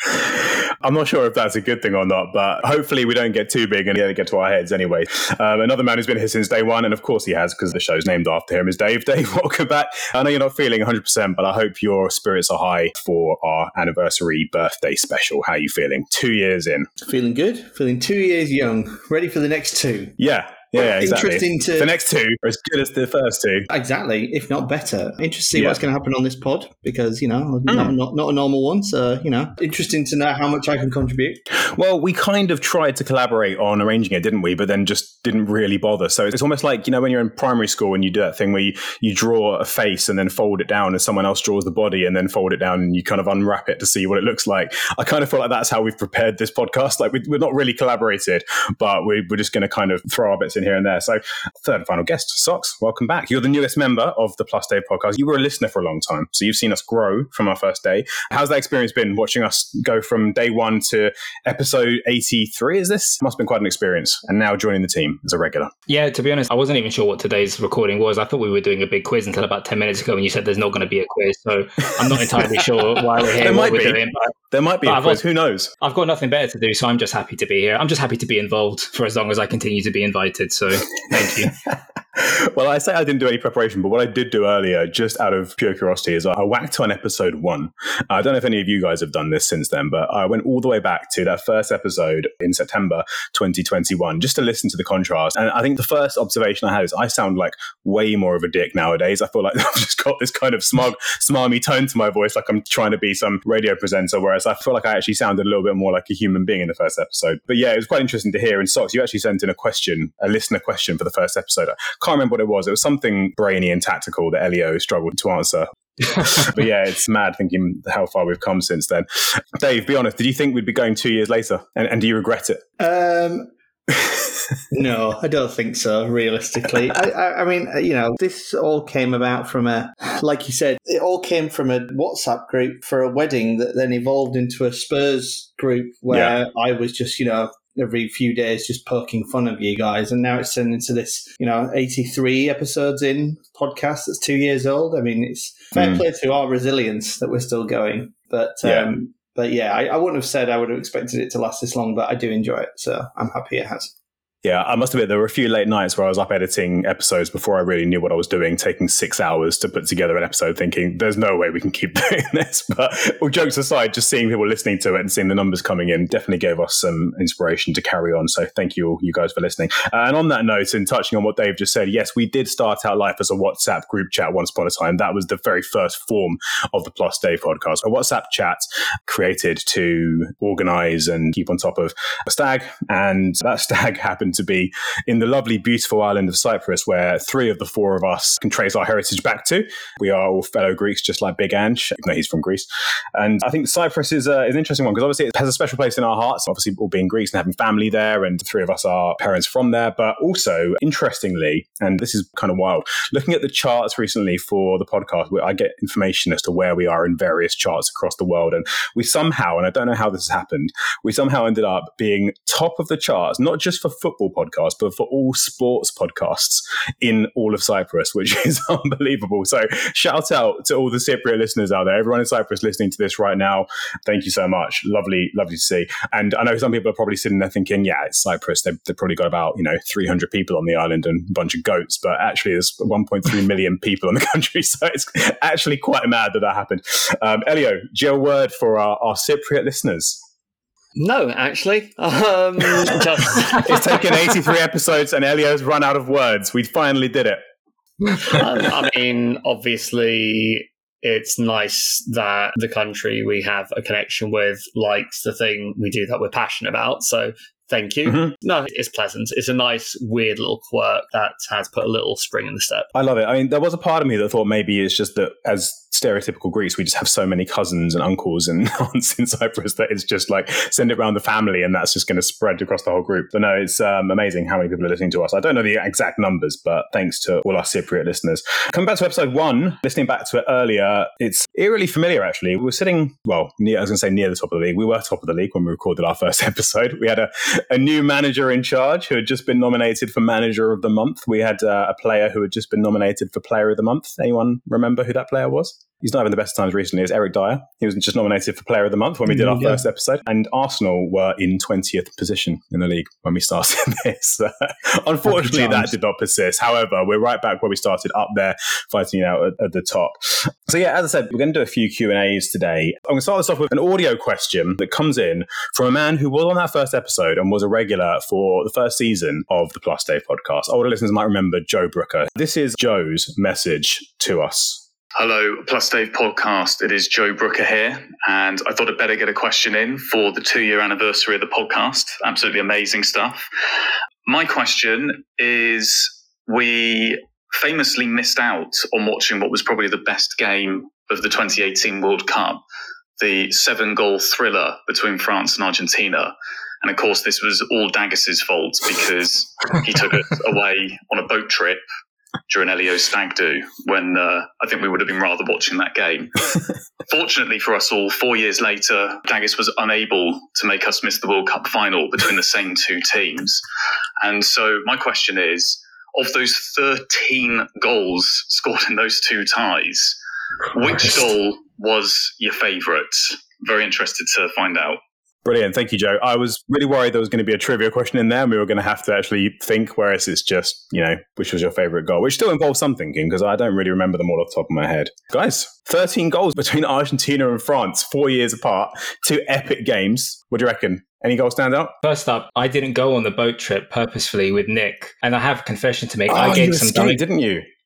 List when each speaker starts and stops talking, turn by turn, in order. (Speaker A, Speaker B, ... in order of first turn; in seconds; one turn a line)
Speaker A: 0.2-16.9
Speaker B: 17.0-20.2
Speaker A: 20.2-23.7
Speaker B: 20.8-21.9
Speaker B: 23.7-31.4
Speaker A: 31.7-65.7
Speaker C: 65.9-74.3
Speaker A: 73.4-75.7
Speaker C: 74.8-75.2
Speaker C: 75.8-81.5
Speaker A: 82.2-119.0
Speaker A: 119.6-122.6
Speaker B: 122.8-123.5
Speaker B: 124.7-153.9
Speaker A: 145.7-146.0
Speaker A: 148.6-148.9
Speaker A: 154.4-240.2
Speaker D: 241.0-244.3
Speaker A: 243.6-247.4
Speaker D: 248.2-262.9
Speaker A: 258.1-258.3
Speaker A: 262.9-324.8
Speaker B: 299.3-299.8
Speaker B: 305.3-305.9
Speaker E: 325.1-333.4
Speaker E: 334.2-342.6
Speaker E: 343.2-351.8
Speaker E: 352.5-363.6
Speaker E: 364.2-370.2
Speaker E: 370.7-375.0
Speaker A: 375.4-391.9
Speaker C: 392.0-397.2
Speaker A: 396.3-397.6